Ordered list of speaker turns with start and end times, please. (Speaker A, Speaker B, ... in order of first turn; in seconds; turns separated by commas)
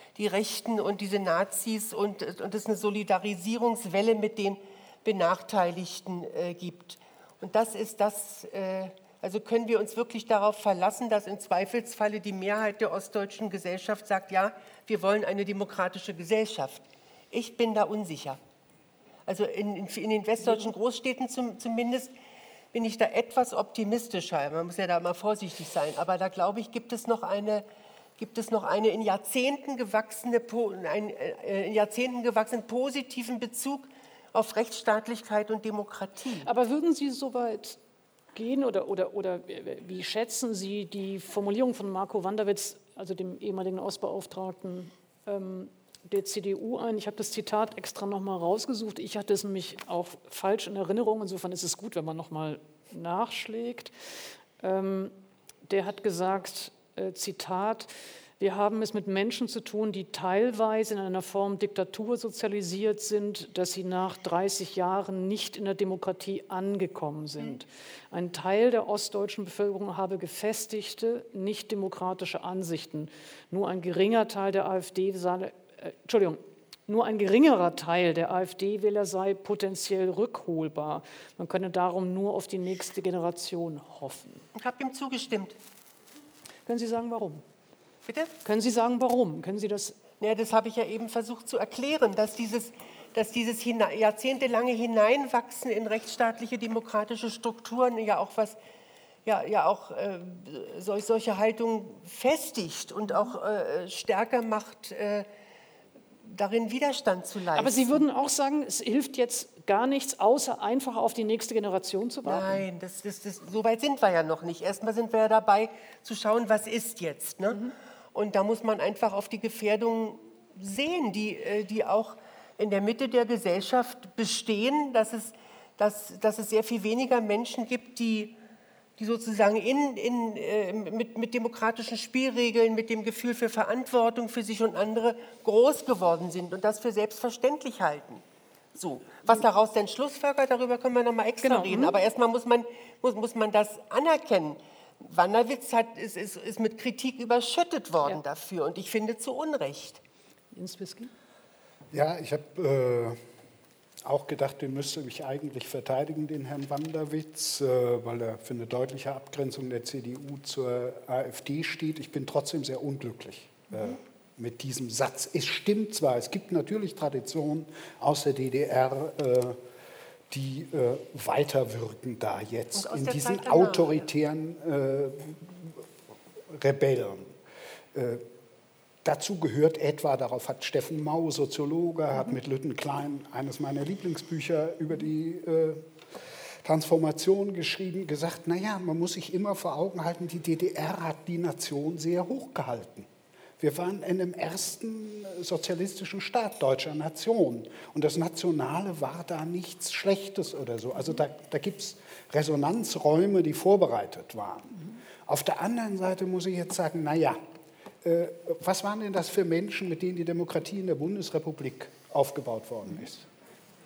Speaker A: 0.1-18.4, Speaker A: 19.3-22.1, Speaker A: 22.7-27.6, Speaker A: 28.2-36.5, Speaker B: 36.4-37.8, Speaker B: 38.3-53.9, Speaker B: 54.6-55.1, Speaker B: 55.7-84.5, Speaker A: 84.5-85.5, Speaker B: 86.7-87.4, Speaker A: 88.1-88.3, Speaker B: 88.4-90.0, Speaker A: 90.2-98.6, Speaker A: 99.2-105.3, Speaker A: 106.2-108.0, Speaker B: 107.5-112.6, Speaker A: 112.2-128.3, Speaker A: 129.0-138.2, Speaker A: 138.7-150.0, Speaker B: 141.4-142.0, Speaker B: 150.5-151.1, Speaker C: 151.9-153.2, Speaker C: 154.0-169.6, Speaker C: 170.3-175.8, Speaker A: 172.7-174.0, Speaker C: 176.5-177.3, Speaker C: 177.9-178.2, Speaker C: 179.0-185.9, Speaker C: 186.6-193.1, Speaker C: 193.6-207.4, Speaker C: 208.0-213.3